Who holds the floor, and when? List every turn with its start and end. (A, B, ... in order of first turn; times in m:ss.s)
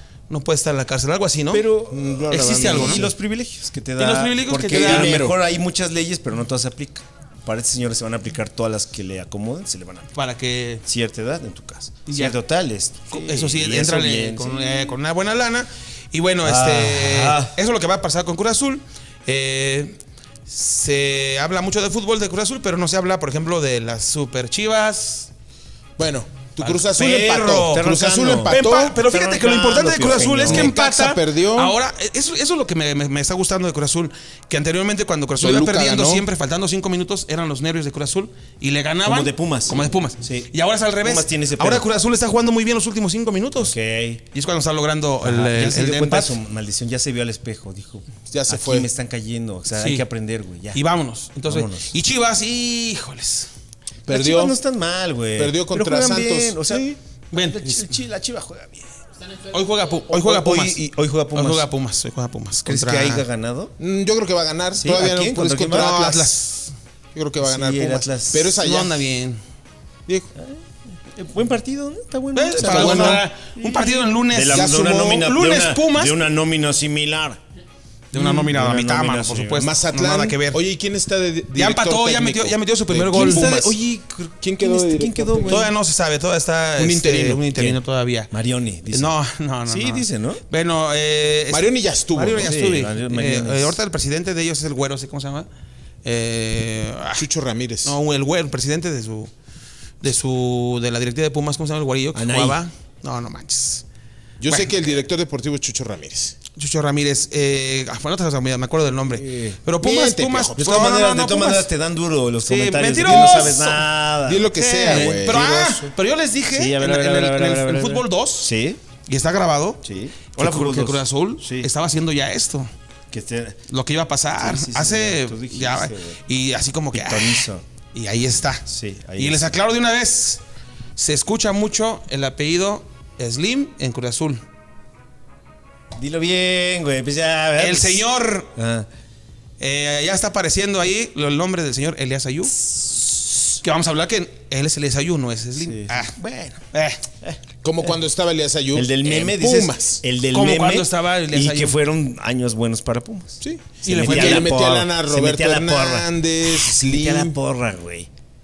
0:00.3-0:01.6 A
0:01.5-0:10.1 B
0:01.9-0:03.1 C
0:02.3-0:03.0 A
0:04.0-0:05.3 A
0:04.7-0:05.3 C
0:10.1-0:10.8 A
0:10.8-0:15.0 B
0:12.1-0:12.4 A
0:13.1-0:25.3 A
0:16.4-0:17.6 B
0:26.0-0:29.0 C
0:26.6-0:27.9 A
0:27.4-0:30.7 B
0:28.5-0:43.7 A
0:30.4-0:31.8 C
0:35.4-0:36.2 C
0:39.0-0:40.5 B
0:41.0-0:41.9 B
0:43.6-0:44.2 B
0:44.3-0:46.4 A
0:45.2-0:50.8 B
0:48.3-0:48.9 C
0:49.8-0:50.0 A
0:50.7-0:53.5 A
0:51.5-0:51.9 B
0:54.0-0:54.6 C
0:54.1-0:58.9 B
0:55.4-0:57.0 C
0:57.3-0:58.0 A
0:59.5-1:03.2 A
1:00.1-1:01.7 B
1:02.6-1:03.7 B
1:03.8-1:06.4 C
1:04.7-1:06.2 B
1:05.7-1:06.7 A
1:07.1-1:09.1 C
1:07.4-1:08.6 B
1:08.6-1:09.4 A
1:10.4-1:17.4 B
1:12.3-1:16.1 A
1:12.6-1:13.2 C
1:14.5-1:15.2 C
1:18.1-1:20.6 A
1:18.1-1:19.7 B
1:19.6-1:23.8 C
1:21.5-1:23.5 A
1:23.1-1:25.7 B
1:24.4-1:25.7 C
1:25.5-1:28.3 A
1:26.8-1:27.3 C
1:27.0-1:30.4 B
1:28.9-1:35.5 A
1:31.5-1:32.5 C
1:32.2-1:33.8 B
1:36.0-1:37.2 A
1:37.2-1:38.0 C
1:37.8-1:39.3 A
1:40.0-1:43.8 A
1:42.1-1:42.6 B
1:44.4-1:46.4 C
1:46.5-1:51.7 A
1:49.1-1:49.6 B
1:49.8-1:50.6 C
1:50.6-1:55.9 B
1:52.4-1:53.8 A
1:53.1-1:53.4 C
1:54.2-1:55.4 C
1:54.5-1:58.5 A
1:56.5-1:58.8 B
1:59.0-1:59.8 A
1:59.8-2:01.7 B
2:00.3-2:02.7 A
2:03.1-2:03.6 B
2:03.7-2:08.6 A
2:04.4-2:06.2 B
2:06.9-2:07.6 B
2:08.6-2:09.6 B
2:09.2-2:10.4 A
2:11.0-2:14.4 A
2:16.0-2:18.9 B
2:17.6-2:18.5 A
2:19.6-2:22.6 A
2:22.7-2:23.1 B
2:23.6-2:27.0 A
2:25.6-2:26.6 B
2:27.6-2:30.0 C
2:28.7-2:38.1 B
2:30.3-2:31.8 A
2:33.4-2:37.3 C
2:33.8-2:34.5 A